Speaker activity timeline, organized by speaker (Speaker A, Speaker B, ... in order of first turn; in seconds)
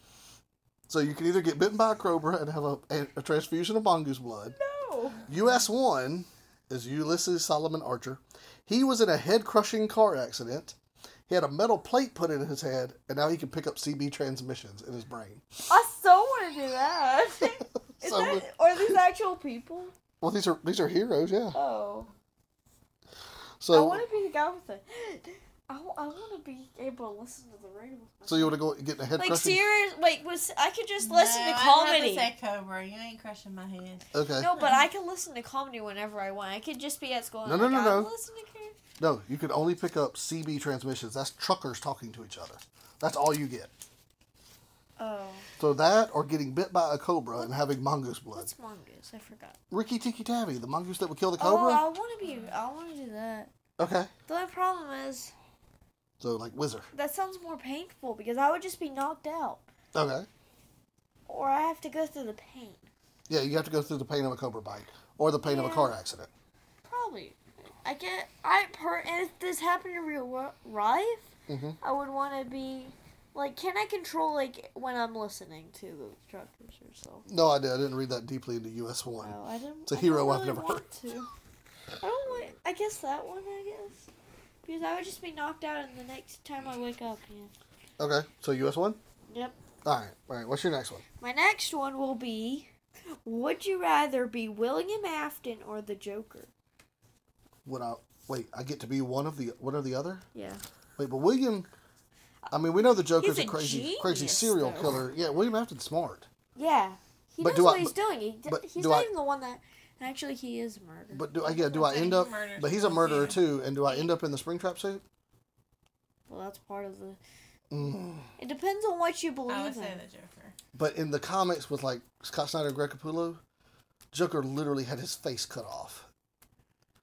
Speaker A: 0.9-4.6, 5.3-10.8, 11.3-15.4, 18.0-19.0, 20.2-21.6, 23.6-24.0, 28.3-29.7, 34.1-34.5, 37.5-38.1, 39.0-43.7, 45.6-48.5, 49.7-51.9, 53.8-54.1, 56.2-56.9, 60.0-60.3, 63.3-66.3, 71.5-71.8, 77.3-79.3, 79.9-81.0, 88.0-89.0, 89.8-91.0, 97.7-100.2, 101.0-101.7, 102.5-106.3, 107.4-109.1, 111.1-115.0, 117.7-118.3, 120.7-123.4, 124.1-126.1
Speaker B: 4.6-5.2, 15.7-19.9, 21.5-22.1, 23.7-28.6, 29.2-32.3, 34.4-38.8, 45.0-45.5, 48.4-49.6, 51.4-53.5, 54.3-55.3, 56.9-59.6, 61.3-62.9, 65.4-65.9, 66.8-71.3, 71.8-77.3, 79.2-81.3, 82.0-84.0, 84.7-87.5, 89.3-89.6, 91.2-92.7, 93.2-96.5, 100.3-100.6, 103.2-105.0, 106.6-111.3, 113.8-114.1, 116.3-117.2, 118.4-120.0
Speaker C: 31.0-34.0, 111.4-113.4, 119.5-120.6